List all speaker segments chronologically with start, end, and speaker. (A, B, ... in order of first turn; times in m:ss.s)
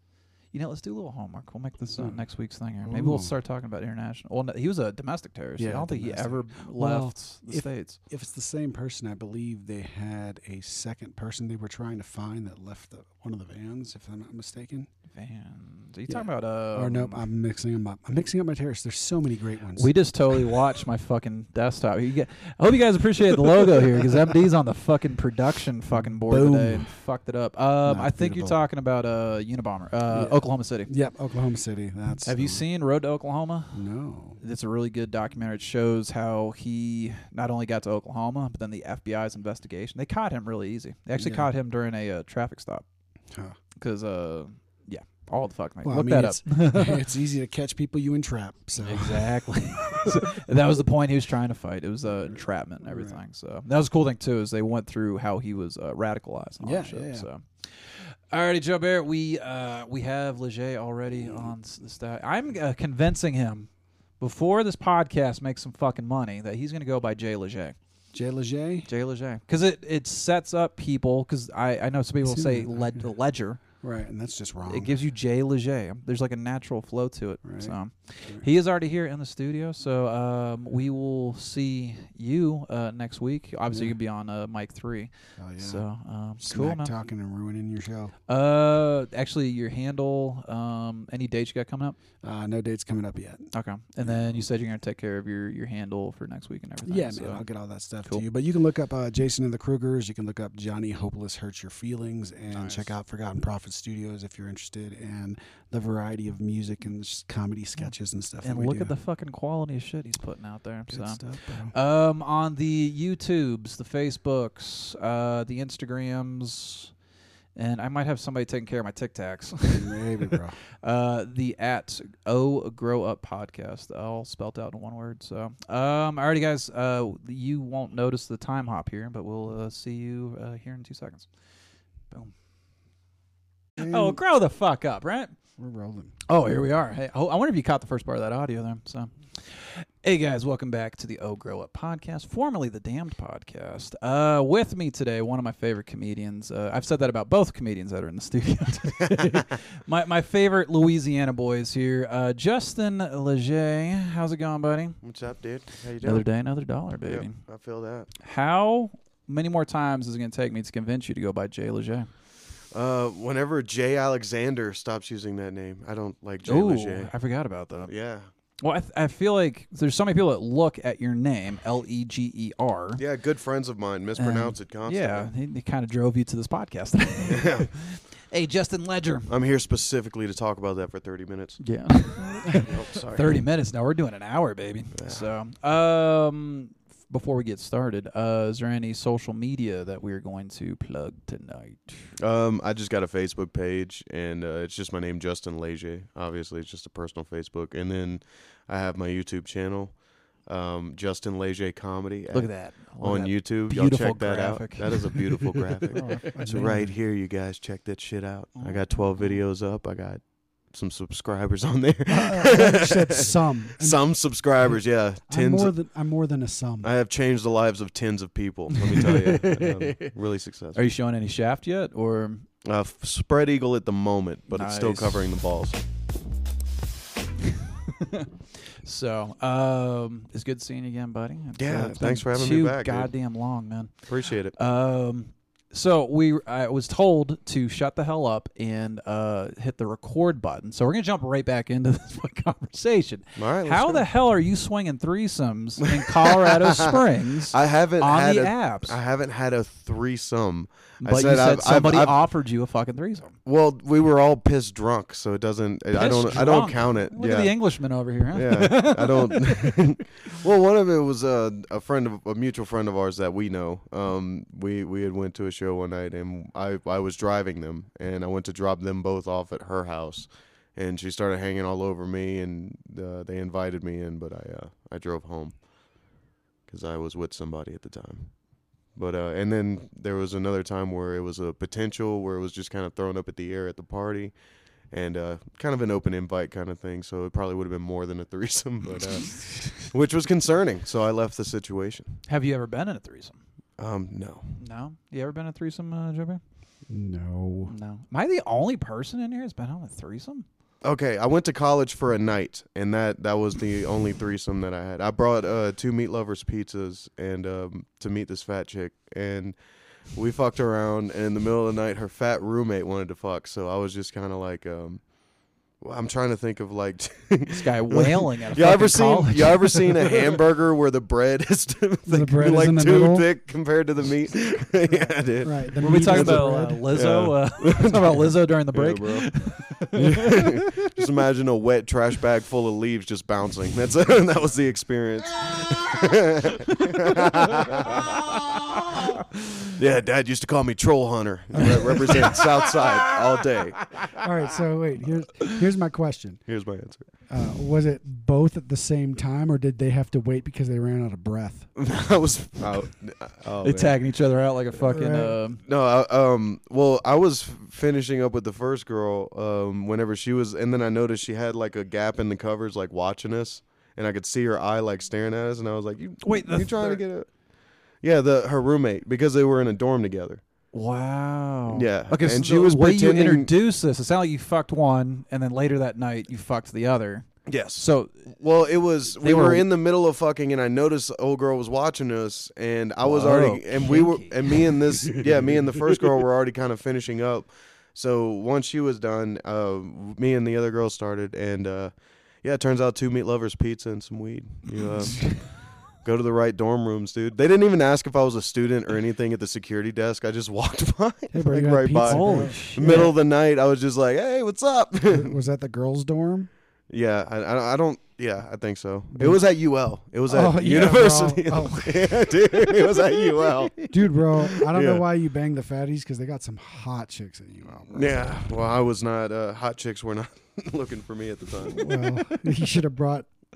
0:00.5-0:08.0 A
0:01.9-0:02.2 B
0:02.8-0:03.3 B
0:05.6-0:14.9 B
0:15.1-0:17.2 A
0:16.1-0:19.9 B
0:19.8-0:30.9 A
0:25.9-0:26.9 B
0:27.8-0:28.6 B
0:30.1-0:32.6 B
0:32.2-0:33.8 A
0:33.7-0:34.4 B
0:34.4-0:42.8 A
0:41.2-0:41.5 B
0:43.3-0:43.6 B
0:43.8-0:47.0 A
0:45.8-0:50.2 B
0:48.8-1:07.8 A
0:52.8-0:53.2 B
0:56.6-0:57.3 B
1:01.1-1:01.5 B
1:08.1-1:08.9 B
1:08.9-1:13.6 A
1:12.2-1:12.9 B
1:13.8-1:14.9 B
1:14.7-1:26.9 A
1:17.4-1:18.4 B
1:25.4-1:25.8 B
1:26.4-1:28.1 B
1:28.3-1:32.0 A
1:32.2-1:33.5 B
1:33.5-1:37.4 A
1:34.0-1:34.4 B
1:36.8-1:48.9 B
1:42.5-1:42.9 A
1:48.4-1:56.9 A
1:50.9-1:51.7 B
1:57.6-2:00.0 A
1:59.7-2:00.6 B
2:00.8-2:11.3 A
2:13.8-2:14.2 B
2:13.8-2:15.3 A
2:15.6-2:16.1 B
2:16.3-2:35.0 A
2:35.0-2:36.2 C
2:36.0-2:37.4 A
2:37.0-2:38.1 C
2:38.2-2:42.1 A
2:42.7-2:47.1 C
2:46.4-2:47.9 A
2:47.8-2:48.3 C
2:48.6-2:53.0 A
2:53.0-2:55.3 C
2:54.2-2:59.3 A
2:57.3-2:57.7 C
2:59.3-3:01.6 C
3:01.6-3:12.1 A
3:02.5-3:03.4 C
3:05.0-3:05.2 C
3:12.2-3:35.7 C
3:22.3-3:26.4 A
3:26.3-3:26.9 B
3:28.6-3:29.4 A
3:32.1-3:34.0 B
3:35.3-3:36.9 B
3:36.8-3:40.8 C
3:38.8-3:40.1 A
3:40.7-3:42.4 A
3:42.6-3:45.8 C
3:44.5-3:45.2 A
3:48.0-3:48.3 A
3:48.8-4:09.0 A
3:51.6-3:53.1 C
3:54.1-3:54.5 C
4:03.4-4:04.0 C
4:06.0-4:07.0 C
4:07.5-4:12.2 C
4:11.0-4:13.4 A
4:13.4-4:17.5 C
4:15.9-4:19.8 A
4:18.3-4:35.6 C
4:36.7-4:38.4 C
4:38.9-4:44.4 C
4:44.9-4:52.2 C
4:52.2-4:53.4 A
4:53.8-4:54.6 C
4:54.6-4:56.4 A
4:56.9-4:57.7 B
4:57.6-5:00.4 A
5:00.8-5:09.6 C
5:10.1-5:15.1 C
5:15.8-5:29.3 C
5:17.5-5:20.4 A
5:22.0-5:23.3 B
5:25.4-5:26.9 B
5:25.8-5:30.7 A
5:29.9-5:38.3 C
5:38.9-5:39.2 C
5:39.7-5:43.8 C
5:41.6-5:43.0 A
5:44.2-5:46.4 B
5:46.5-5:47.1 C
5:47.3-5:51.7 B
5:51.8-5:54.0 C
5:53.6-5:55.6 A
5:54.8-5:55.4 B
5:55.6-6:07.3 C
6:06.2-6:07.0 A
6:08.0-6:10.4 C
6:10.7-6:18.3 A
6:11.7-6:13.5 C
6:17.5-6:45.3 C
6:19.2-6:19.7 A
6:23.0-6:25.6 A
6:41.3-6:43.1 B
6:42.0-6:43.1 A
6:45.1-6:46.5 B
6:46.9-6:53.8 C
6:49.1-6:49.4 B
6:50.3-6:52.7 B
6:53.6-6:53.9 A
6:53.9-6:58.5 B
6:54.5-6:55.0 C
6:57.9-7:01.9 C
7:01.7-7:03.3 B